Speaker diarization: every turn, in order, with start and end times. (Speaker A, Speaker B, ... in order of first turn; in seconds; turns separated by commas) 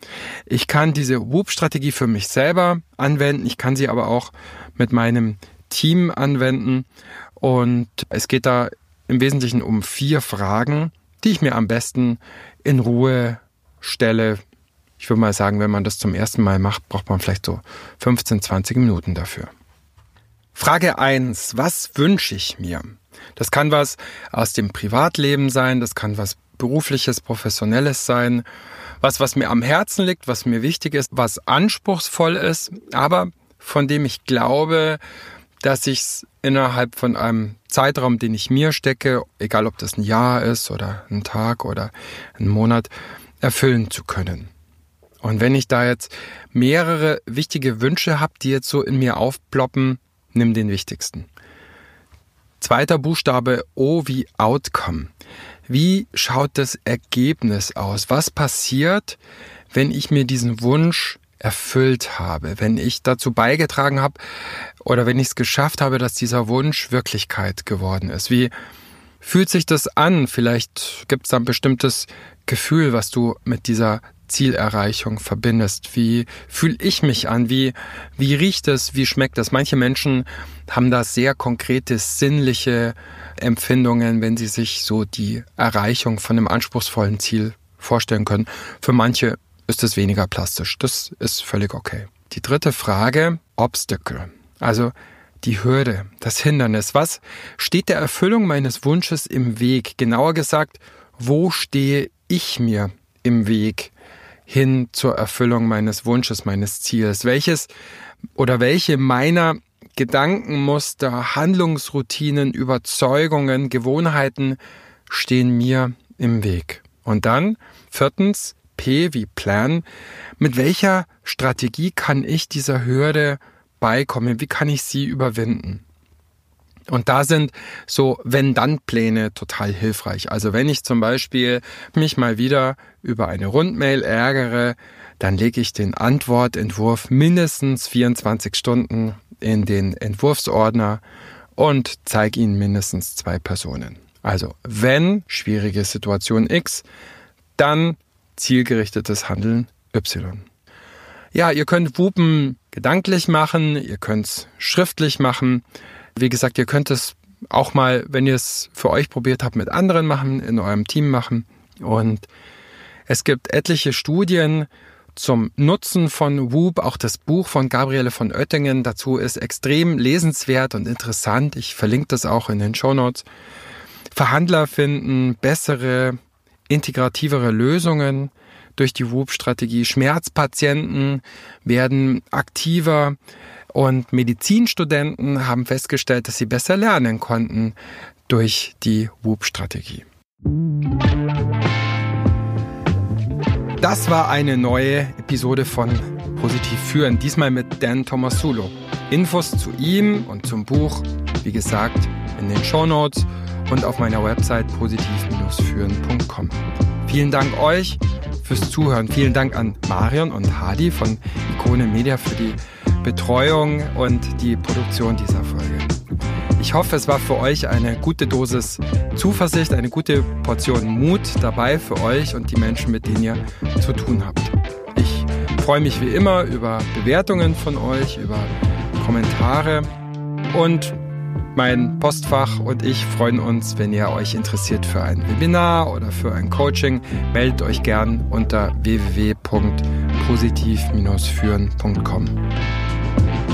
Speaker A: 0.5-14.4, Speaker A: 15.0-19.5, Speaker A: 20.6-28.4, Speaker A: 29.0-35.0, Speaker A: 35.6-42.9, Speaker A: 43.4-44.5, Speaker A: 45.2-51.3, Speaker A: 52.6-55.1, Speaker A: 55.7-59.2, Speaker A: 59.7-64.2, Speaker A: 64.8-68.5, Speaker A: 69.2-103.9, Speaker A: 104.5-107.7, Speaker A: 108.4-119.9, Speaker A: 120.4-125.8, Speaker A: 126.9-141.0, Speaker A: 141.6-146.9, Speaker A: 147.6-150.4, Speaker A: 151.3-155.6, Speaker A: 156.2-162.3, Speaker A: 163.1-173.3, Speaker A: 174.1-176.2, Speaker A: 176.7-183.2, Speaker A: 183.7-190.1, Speaker A: 193.8-215.9, Speaker A: 216.6-229.9, Speaker A: 230.5-231.0, Speaker A: 231.5-242.4